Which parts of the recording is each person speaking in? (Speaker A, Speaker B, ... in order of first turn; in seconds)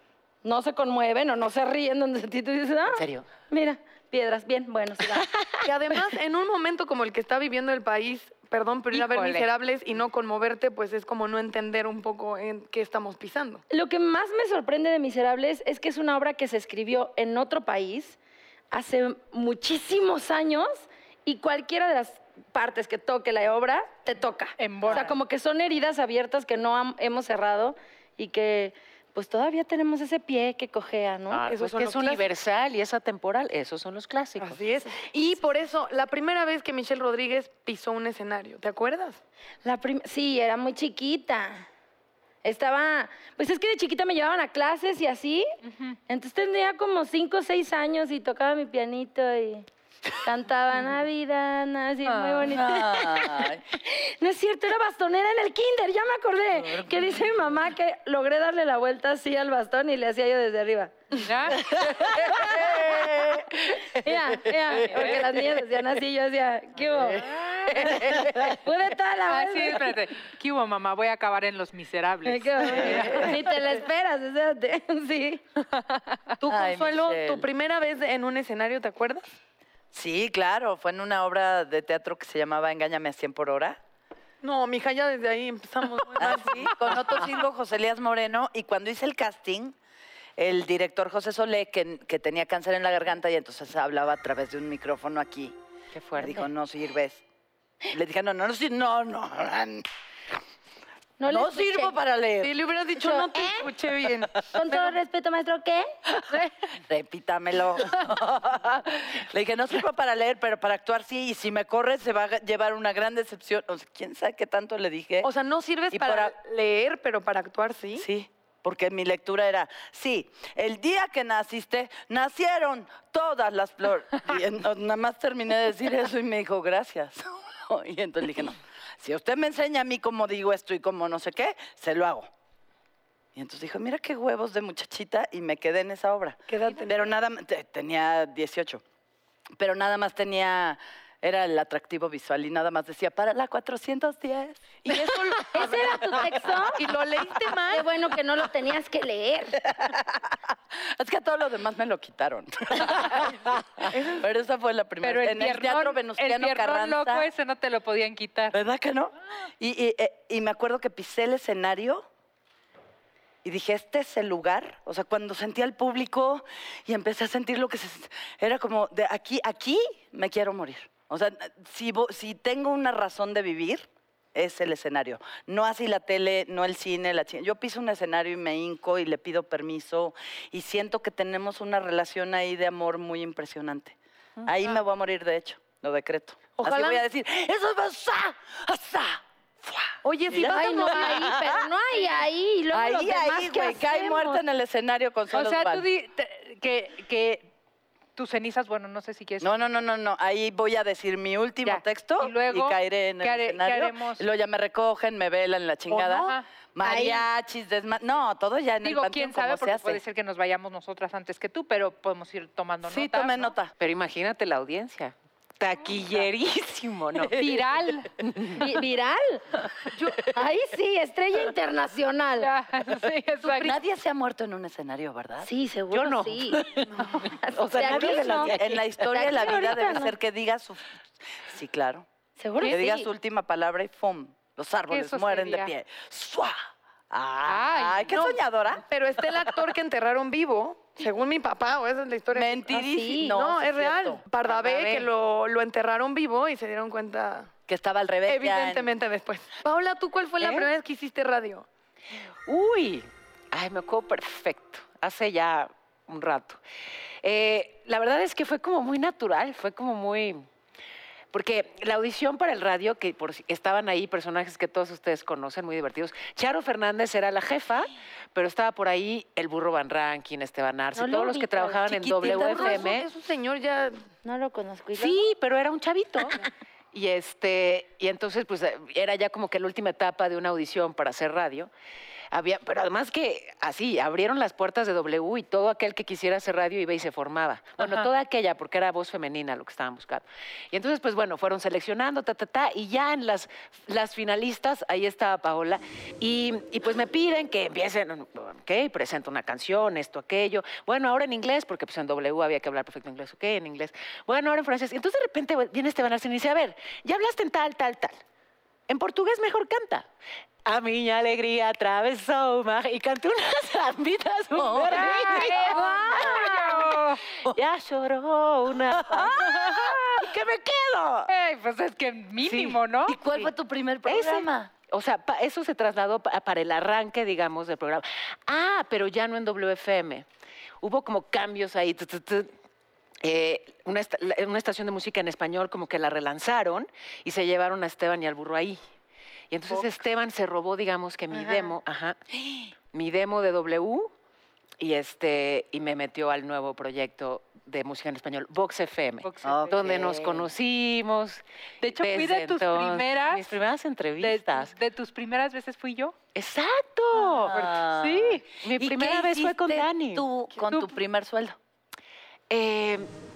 Speaker A: 0.4-5.3, 13.7-18.2, 18.7-31.5, 39.6-41.7, 42.4-45.5, 46.1-49.6, 50.2-61.0, 62.1-62.8, 63.9-69.9, 72.2-75.4, 101.2-101.9, 103.0-103.7, 104.5-105.9, 145.5-146.8, 147.7-149.6, 190.4-194.4, 206.8-207.2, 218.5-219.4, 220.2-222.5, 225.4-226.7, 227.2-228.6, 229.1-230.1, 232.4-233.1, 242.7-243.3, 270.9-272.9, 274.2-275.2, 315.6-316.5
Speaker B: 2.9-3.2, 5.1-5.6, 31.3-34.6, 95.9-96.5, 213.8-217.4, 218.2-218.7, 225.9-228.9, 252.4-256.6, 257.2-260.4, 261.3-273.1, 274.9-281.7, 282.3-308.1, 308.9-310.1, 310.6-316.5, 317.4-319.7, 322.5-322.8, 324.0-330.2, 330.8-332.5, 333.2-338.8, 339.5-342.2, 342.9-344.1, 344.8-351.4, 352.0-354.7, 356.3-357.5, 358.5-360.9, 362.5-363.1
Speaker C: 5.6-13.6, 31.5-32.3, 34.4-39.2, 76.4-79.2, 84.4-87.2, 102.4-104.9, 115.2-118.1, 136.5-137.1, 144.9-146.2, 146.8-147.9, 153.9-154.2, 186.5-187.0, 190.0-191.4, 238.1-247.5, 248.2-251.7, 272.2-274.0
Speaker D: 8.9-9.5, 24.6-25.2, 45.6-46.0, 52.0-52.5, 61.2-61.7, 64.9-65.2, 69.3-73.2, 155.0-158.6, 195.3-197.5, 198.2-199.5, 201.6-204.2, 206.1-206.4, 208.8-213.6, 217.3-218.1, 222.4-223.8, 234.9-235.7, 237.4-238.2, 287.8-288.1, 314.7-317.2, 321.3-323.2, 349.2-350.0, 351.8-353.6, 354.2-356.1, 357.1-358.5
Speaker E: 52.5-53.6, 61.6-63.9, 67.8-68.1, 72.7-73.4, 76.5-77.4, 79.9-83.8, 86.1-89.8, 90.4-95.5, 96.2-97.2, 97.9-99.9, 101.3-103.2, 106.9-115.3, 115.9-116.3, 118.0-132.3, 133.3-138.8, 139.6-145.2, 149.7-150.2, 150.9-157.3, 158.5-162.1, 163.4-191.7, 192.7-195.9, 199.4-210.0, 212.8-213.7, 217.4-217.8, 223.4-225.5, 227.8-232.1, 232.6-236.6, 237.1-238.8, 242.3-245.1, 247.7-248.9, 272.3-272.5, 314.5-316.5, 318.9-321.2, 323.0-324.7, 349.4-350.5, 357.4-361.6